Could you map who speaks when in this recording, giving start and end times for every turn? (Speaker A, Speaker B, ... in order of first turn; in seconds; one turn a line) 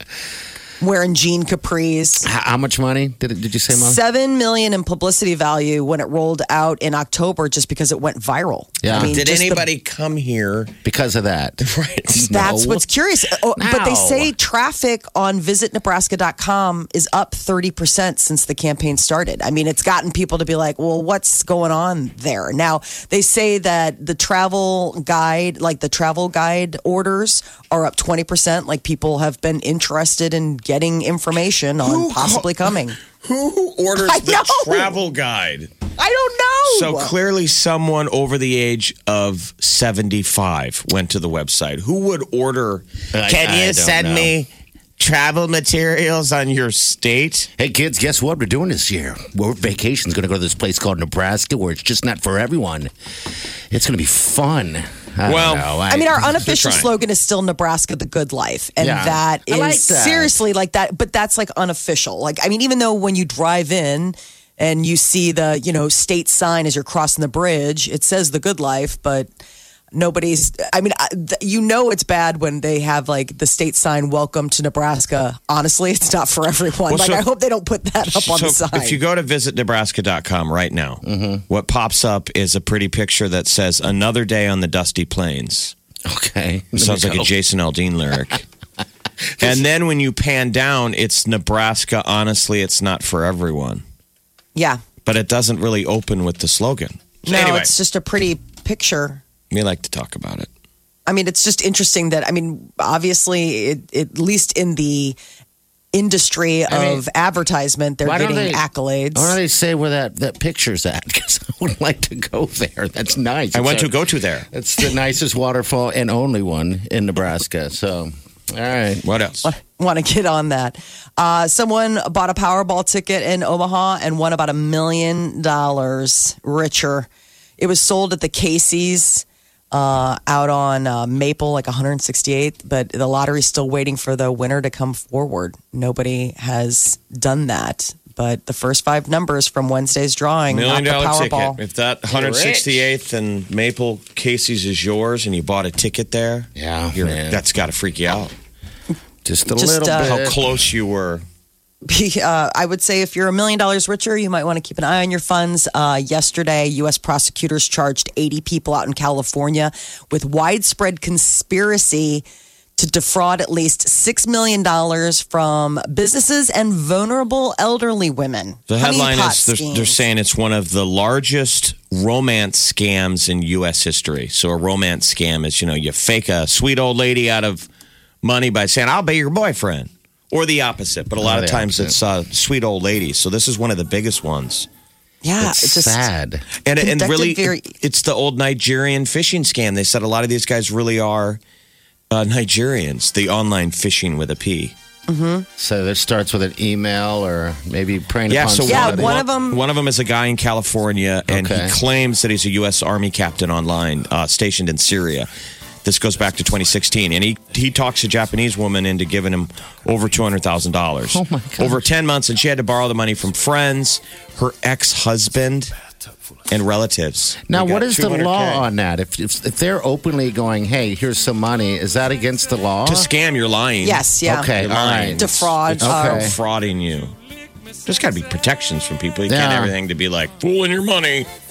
Speaker A: 0.8-2.3
Speaker B: 2.2-4.0
Speaker A: 3.7-9.7
Speaker B: 8.8-9.2
Speaker C: 8.9-10.7
Speaker B: 10.8-12.9
Speaker C: 11.6-12.3
Speaker A: 12.2-33.0
Speaker B: 13.5-14.3
Speaker C: 31.8-35.7
Speaker A: 34.0-35.0
Speaker A: 36.0-37.1
Speaker C: 36.6-44.5
Speaker B: 43.1-44.3
Speaker C: 45.0-47.5
Speaker B: 47.6-52.9
Speaker B: 53.7-56.2
Speaker C: 55.2-56.9
Speaker A: 55.9-69.3
Speaker B: 58.8-60.4
Speaker A: 69.9-79.0
Speaker C: 76.9-77.2
Speaker C: 78.0-85.7
Speaker B: 81.0-81.4
Speaker B: 86.0-87.3
Speaker C: 86.8-88.4
Speaker B: 89.3-89.6
Speaker C: 89.4-93.8
Speaker A: 94.5-94.8
Speaker C: 95.0-97.7
Speaker A: 97.3-99.2
Speaker C: 99.5-100.5
Speaker A: 101.1-105.2
Speaker A: 105.9-109.3
Speaker B: 106.7-107.0
Speaker B: 108.0-113.9
Speaker C: 113.5-114.5
Speaker B: 114.5-119.0
Speaker C: 119.0-119.5
Speaker A: 119.4-127.1
Speaker A: 127.6-141.6
Speaker C: 140.5-148.3
Speaker B: 142.1-142.8
Speaker B: 146.6-147.4
Speaker B: 149.2-150.4
Speaker A: 149.6-150.1
Speaker C: 150.0-151.2
Speaker A: 151.8-162.2
Speaker A: 162.8-170.0
Speaker C: 168.7-177.7
Speaker C: 178.2-184.7
Speaker B: 181.2-182.0
Speaker A: 185.2-186.0
Speaker B: 185.4-186.4
Speaker C: 186.6-191.4
Speaker A: 186.8-187.7
Speaker C: 192.1-194.7
Speaker A: 195.1-195.4
Speaker B: 195.6-199.2
Speaker C: 198.3-205.3
Speaker A: 198.7-199.6
Speaker B: 201.3-201.8
Speaker C: 205.8-215.7
Speaker B: 211.1-211.8
Speaker C: 216.5-218.7
Speaker B: 217.5-223.1
Speaker C: 222.8-227.1
Speaker A: 223.8-224.5
Speaker B: 224.2-226.4
Speaker A: 225.2-226.3
Speaker C: 227.8-231.3
Speaker B: 229.3-229.7